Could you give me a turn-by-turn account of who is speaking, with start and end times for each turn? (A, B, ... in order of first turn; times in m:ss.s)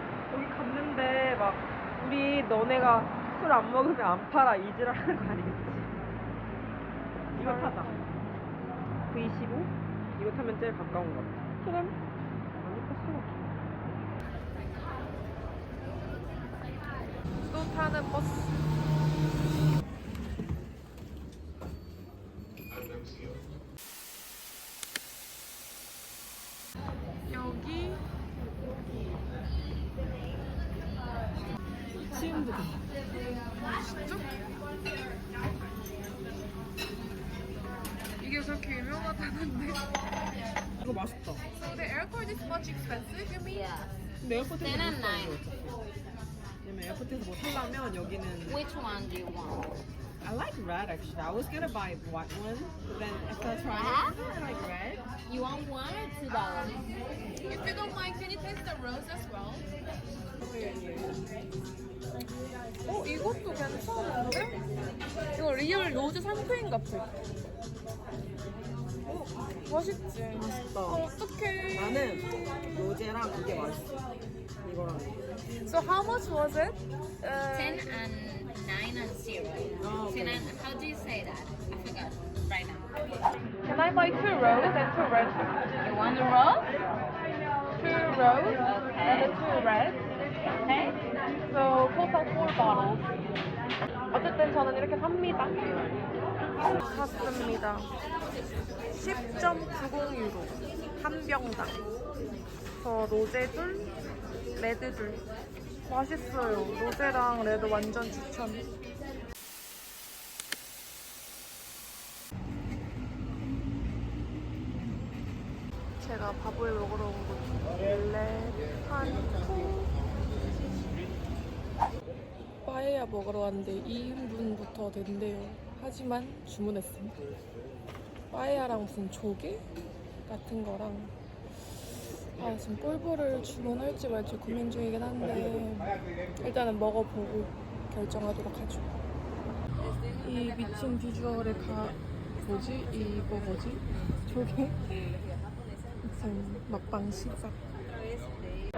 0:00.3-0:05.9 A
0:07.3-0:08.0 A
0:07.4-0:08.0 B
0:09.1-0:11.4 A
0:11.6-0:12.0 B
0:12.6-0:13.5 A
0:17.4-0:18.6 B
0:27.3-0:28.0 B
0:32.1-0:32.8 A
0:33.6-0:34.3 B
0:38.2-0:39.9 B
0:40.8-0:41.4 A
0:41.6-0:43.7 B
0:43.5-0:44.0 C
0:44.2-0:45.8 A
0:44.5-0:45.4 C
0:46.6-0:48.6 A
0:48.4-0:49.8 C
0:50.2-0:55.0 A
0:53.7-0:54.2 C
0:55.2-0:56.9 C
0:57.4-0:59.6 B
1:00.4-1:01.1 A
1:02.8-1:04.6 B
1:05.3-1:07.1 B
1:09.0-1:09.7 A
1:09.6-1:12.6 B
1:10.3-1:11.1 A
1:11.7-1:13.9 A
1:14.6-1:15.2 A
1:15.6-1:17.9 B
1:17.5-1:22.9 C
1:19.8-1:20.5 A
1:23.6-1:25.5 B
1:25.8-1:26.7 C
1:27.7-1:30.0 B
1:28.6-1:29.5 C
1:30.6-1:31.0 C
1:31.4-1:33.1 B
1:34.1-1:36.0 B
1:36.6-1:37.9 B
1:38.9-1:41.8 B
1:42.8-1:43.9 B
1:44.6-1:45.2 B
1:45.9-1:48.7 B
1:56.0-2:00.0 B
2:02.6-2:07.1 B
2:08.3-2:09.6 B
2:10.3-2:11.1 B
2:12.2-2:18.9 B
2:20.2-2:24.9 B
2:26.0-2:27.6 B